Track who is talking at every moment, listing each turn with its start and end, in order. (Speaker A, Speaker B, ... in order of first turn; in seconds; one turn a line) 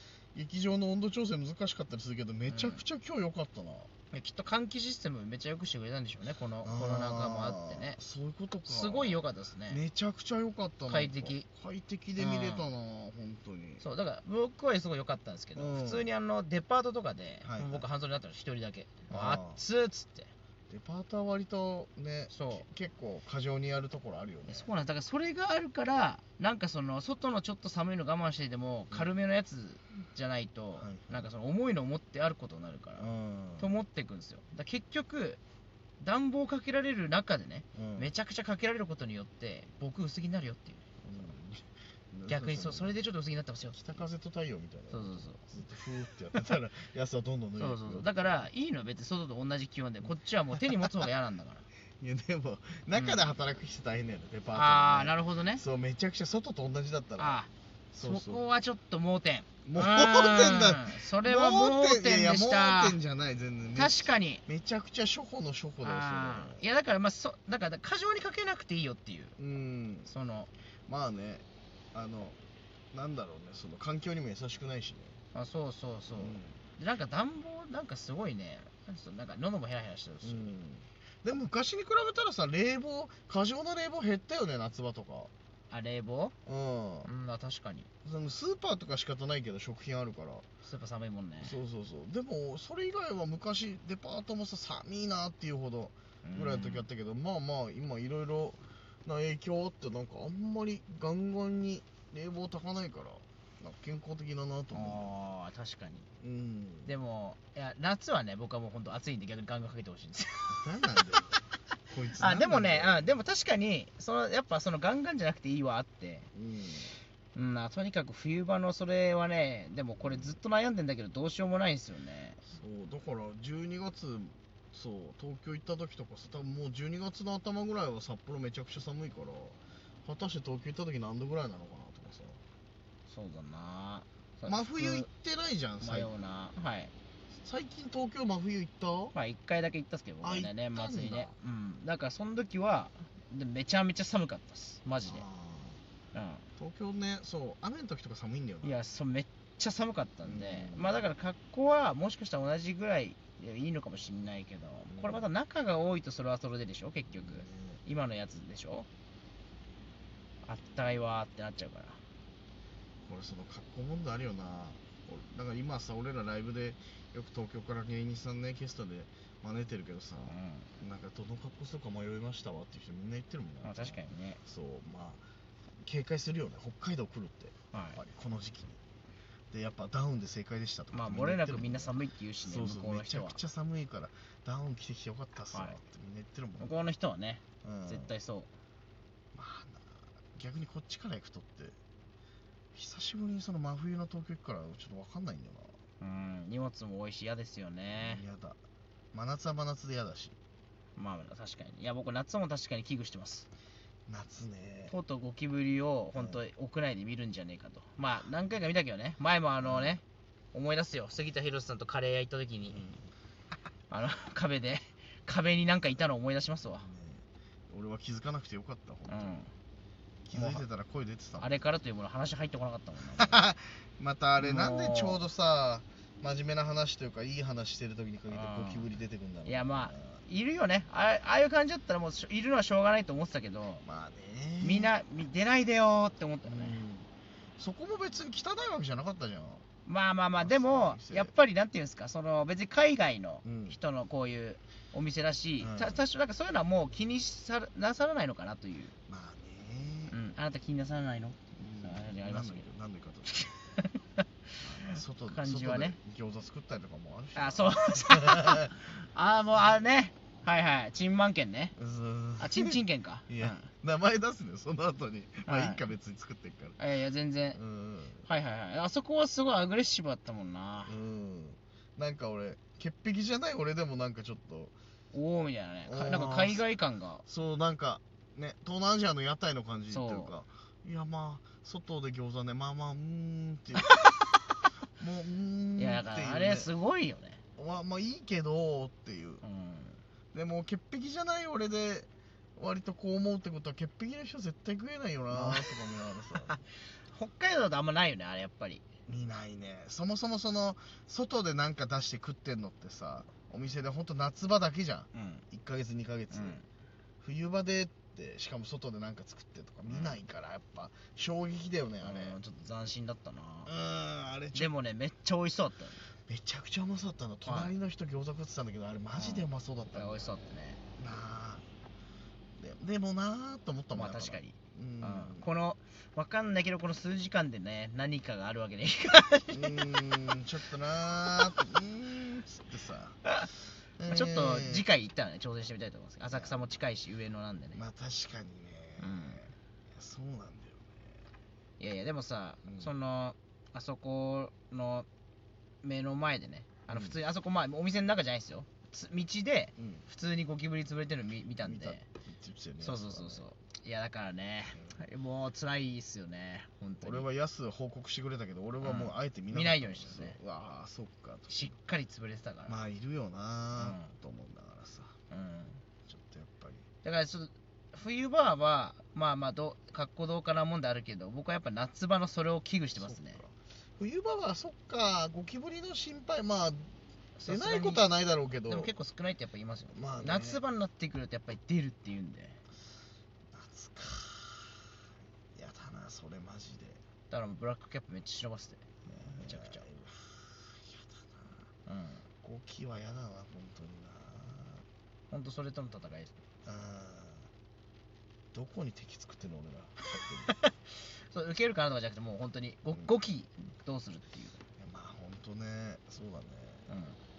Speaker A: 0.3-3.9
Speaker B: 2.5-2.8
Speaker B: 4.1-8.0
Speaker A: 6.6-13.8
Speaker B: 8.7-9.8
Speaker B: 10.9-11.4
Speaker B: 12.2-12.7
Speaker B: 13.8-20.3
Speaker A: 15.6-16.1
Speaker A: 17.4-17.9
Speaker A: 19.1-19.6
Speaker A: 20.7-24.7
Speaker B: 22.3-22.6
Speaker B: 24.5-33.1
Speaker A: 30.8-31.3
Speaker A: 33.0-33.7
Speaker B: 33.6-35.4
Speaker B: 36.0-40.9
Speaker A: 37.8-38.1
Speaker A: 41.0-43.0
Speaker B: 42.3-44.0
Speaker A: 43.8-48.4
Speaker B: 44.9-45.4
Speaker B: 47.6-51.7
Speaker A: 52.0-57.4
Speaker B: 52.9-53.2
Speaker B: 54.5-55.6
Speaker B: 57.2-63.0
Speaker A: 57.9-58.4
Speaker A: 59.6-66.6
Speaker B: 63.8-64.4
Speaker B: 65.8-69.4
Speaker A: 69.4-70.1
Speaker B: 70.1-70.5
Speaker A: 70.9-72.4
Speaker A: 72.9-75.2
Speaker B: 75.3-80.5
Speaker A: 76.1-76.6
Speaker A: 80.2-85.3
Speaker B: 85.7-86.4
Speaker A: 86.5-87.1
Speaker B: 87.0-87.9
Speaker A: 88.0-90.4
Speaker B: 90.6-91.6
Speaker A: 91.4-105.2
Speaker B: 96.2-96.9
Speaker B: 104.7-106.1
Speaker A: 106.2-106.9
Speaker B: 106.9-110.7
Speaker A: 110.5-113.2
Speaker B: 112.2-116.3
Speaker A: 116.3-116.9
Speaker B: 117.3-122.4
Speaker A: 120.0-120.4
Speaker A: 122.4-132.4
Speaker B: 133.1-135.1
Speaker A: 134.4-136.1
Speaker B: 135.8-136.9
Speaker A: 137.4-139.1
Speaker B: 139.1-145.2
Speaker A: 140.2-141.3
Speaker A: 145.1-145.8
Speaker B: 146.1-146.4
Speaker A: 146.6-148.8
Speaker B: 148.6-158.9
Speaker A: 150.2-151.0
Speaker A: 154.9-155.3
Speaker A: 157.1-157.8
Speaker B: 160.4-162.0
Speaker A: 163.1-175.2
Speaker B: 170.2-170.7
Speaker B: 173.6-174.4
Speaker A: 175.8-178.8
Speaker B: 177.7-178.0
Speaker A: 179.5-186.8
Speaker B: 180.9-183.4
Speaker B: 185.5-185.8
Speaker B: 186.6-188.5
Speaker A: 187.6-188.1
Speaker A: 189.3-191.8
Speaker A: 192.7-195.8
Speaker B: 196.0-198.2
Speaker A: 197.9-198.6
Speaker A: 199.1-200.4
Speaker B: 200.9-203.5
Speaker A: 204.1-204.9
Speaker B: 204.9-212.8
Speaker A: 206.1-206.4
Speaker A: 209.6-210.0
Speaker A: 212.7-213.1
Speaker B: 213.9-216.9
Speaker A: 216.7-219.4
Speaker B: 219.1-219.5
Speaker A: 220.3-221.6
Speaker B: 220.3-220.7
Speaker B: 221.4-223.4
Speaker A: 223.1-230.2
Speaker B: 224.4-225.2
Speaker B: 228.3-228.9
Speaker B: 229.4-233.8
Speaker A: 233.8-234.9
Speaker B: 234.6-236.8
Speaker A: 236.4-239.6
Speaker B: 239.9-248.9
Speaker A: 240.4-241.3
Speaker A: 243.4-243.8
Speaker A: 245.6-246.0
Speaker A: 249.1-250.2
Speaker B: 250.1-252.7
Speaker A: 251.6-253.4
Speaker B: 253.3-254.2
Speaker A: 254.6-258.7
Speaker B: 254.9-256.0
Speaker B: 257.4-261.8
Speaker A: 261.8-266.8
Speaker B: 262.4-263.7
Speaker B: 265.4-265.8
Speaker B: 266.8-267.6
Speaker A: 267.5-268.3
Speaker B: 268.2-270.9
Speaker A: 270.9-274.7
Speaker B: 275.1-277.2
Speaker A: 275.9-276.6
Speaker A: 277.2-283.9
Speaker B: 279.9-280.3
Speaker B: 283.8-284.2
Speaker A: 284.9-286.7
Speaker B: 285.8-287.4
Speaker A: 287.6-289.4
Speaker B: 289.4-290.0
Speaker A: 290.3-296.6
Speaker B: 295.3-295.8
Speaker B: 296.3-298.8
Speaker A: 299.1-306.6
Speaker B: 305.1-305.4
Speaker B: 306.3-306.6
Speaker A: 307.2-312.4
Speaker B: 309.9-310.2
Speaker B: 312.0-313.7
Speaker A: 313.7-314.7
Speaker B: 314.5-316.1
Speaker A: 316.3-320.4
Speaker B: 317.4-317.7
Speaker B: 319.1-320.8
Speaker A: 320.9-321.6
Speaker A: 322.6-325.5
Speaker B: 323.9-329.9
Speaker A: 329.5-333.2
Speaker A: 334.0-334.9
Speaker B: 334.0-337.8
Speaker A: 336.3-336.8
Speaker A: 337.7-341.1
Speaker B: 339.0-339.4
Speaker B: 341.8-345.1
Speaker A: 342.6-342.9
Speaker B: 345.8-352.0
Speaker A: 346.9-347.2
Speaker A: 349.8-350.1
Speaker A: 351.6-353.5
Speaker B: 352.8-357.2
Speaker A: 354.7-355.0
Speaker A: 357.0-361.7
Speaker B: 358.8-360.4
Speaker B: 361.5-362.8
Speaker A: 362.7-365.1
Speaker B: 363.8-364.1
Speaker B: 365.3-365.8
Speaker A: 366.1-366.9
Speaker B: 367.0-373.4
Speaker A: 372.9-376.9
Speaker B: 377.4-378.0
Speaker A: 377.5-378.9
Speaker B: 378.7-382.6
Speaker A: 379.9-380.6
Speaker A: 383.5-384.9
Speaker A: 385.5-387.0
Speaker B: 387.3-389.9
Speaker A: 389.0-391.7
Speaker B: 391.9-392.2
Speaker A: 392.4-394.8
Speaker B: 395.3-396.4
Speaker A: 396.6-397.5
Speaker A: 398.5-400.5
Speaker B: 400.5-404.6
Speaker A: 404.8-406.9
Speaker B: 406.9-407.2